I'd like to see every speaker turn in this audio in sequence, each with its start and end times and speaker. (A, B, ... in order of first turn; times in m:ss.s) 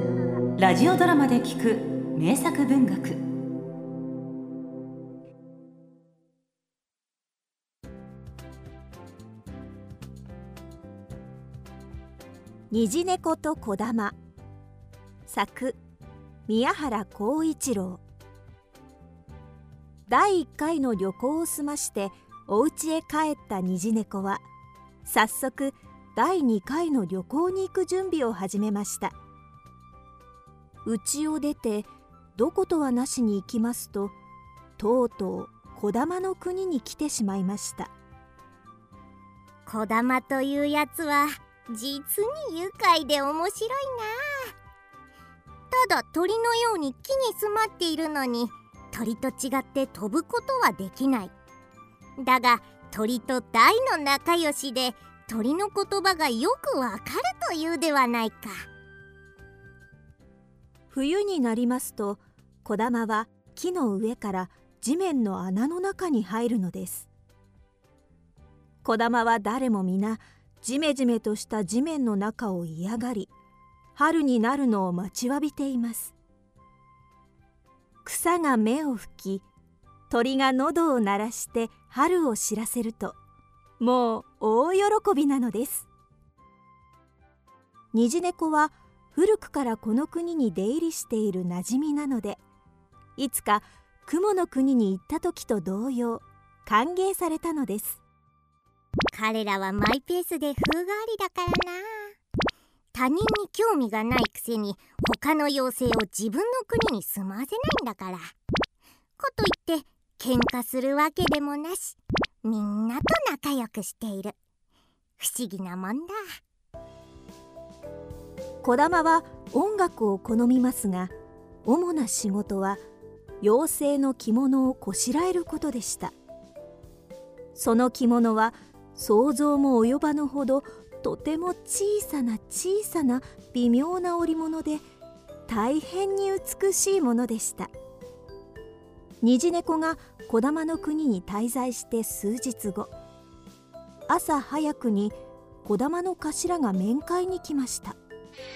0:00.6-0:03.2 A
0:12.7-0:14.2 B
0:15.3-0:15.8 B
0:16.5-0:18.0 B
0:20.1-0:24.4 B
0:25.1-0:29.1 B
0:30.8-0:34.2 B
0:34.8-0:37.9 B
0:39.7-0:44.5 C
0:45.7-0:51.3 C
0:52.2-0:58.7 C
1:00.9-1:07.1 B
1:08.8-1:13.3 B
1:14.0-1:16.2 B
1:18.0-1:19.5 B
1:20.1-1:23.2 B
1:23.8-1:25.9 B
1:27.9-1:32.4 B
1:33.2-1:38.0 B
1:39.1-1:42.1 C
1:42.9-1:48.3 C
1:49.2-1:54.4 C
1:55.2-1:56.2 C
1:58.6-2:01.1 B
2:01.6-2:02.8 B
2:03.4-2:06.1 B
2:07.6-2:14.8 B
2:15.5-2:17.7 B
2:19.2-2:22.9 B
2:24.1-2:28.0 B